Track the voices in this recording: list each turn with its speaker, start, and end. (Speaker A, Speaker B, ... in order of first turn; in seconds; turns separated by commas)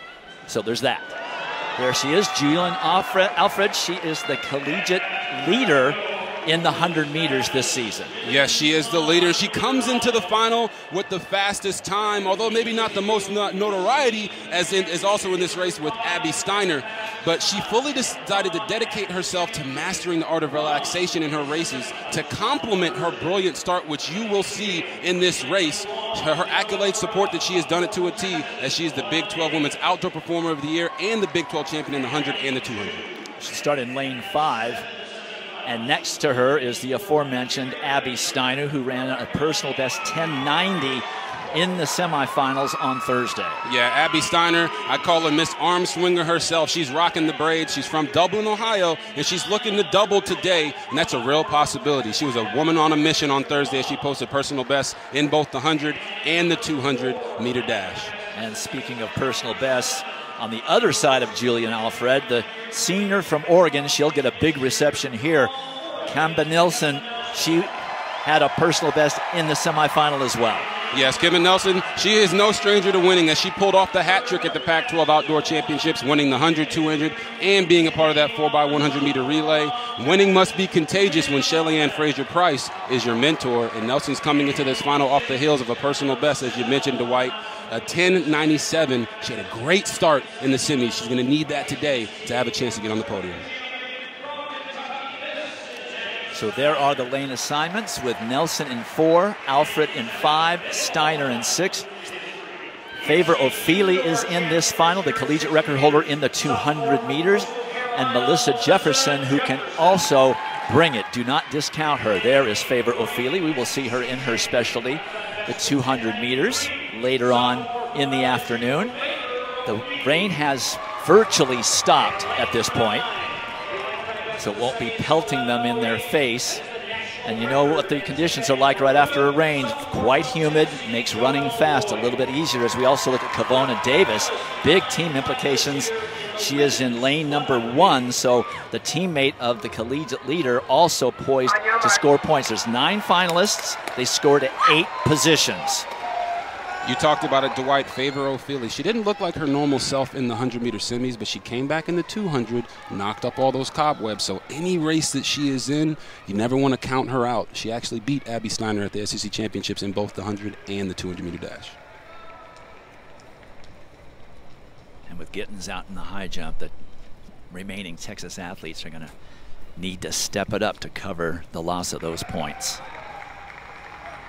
Speaker A: 0.5-1.2, Speaker A: 1.8-8.1, Speaker B: 8.2-33.0, Speaker A: 33.4-34.9, Speaker A: 35.6-43.6, Speaker B: 43.7-58.1, Speaker A: 58.3-65.5, Speaker A: 66.0-67.7, Speaker A: 68.2-70.7, Speaker B: 70.9-93.4, Speaker A: 96.3-101.9, Speaker A: 103.0-118.9, Speaker A: 119.6-123.1, Speaker A: 124.4-126.6, Speaker A: 127.2-145.8, Speaker B: 146.8-161.8, Speaker A: 165.1-166.7, Speaker A: 167.5-169.1, Speaker A: 169.8-172.8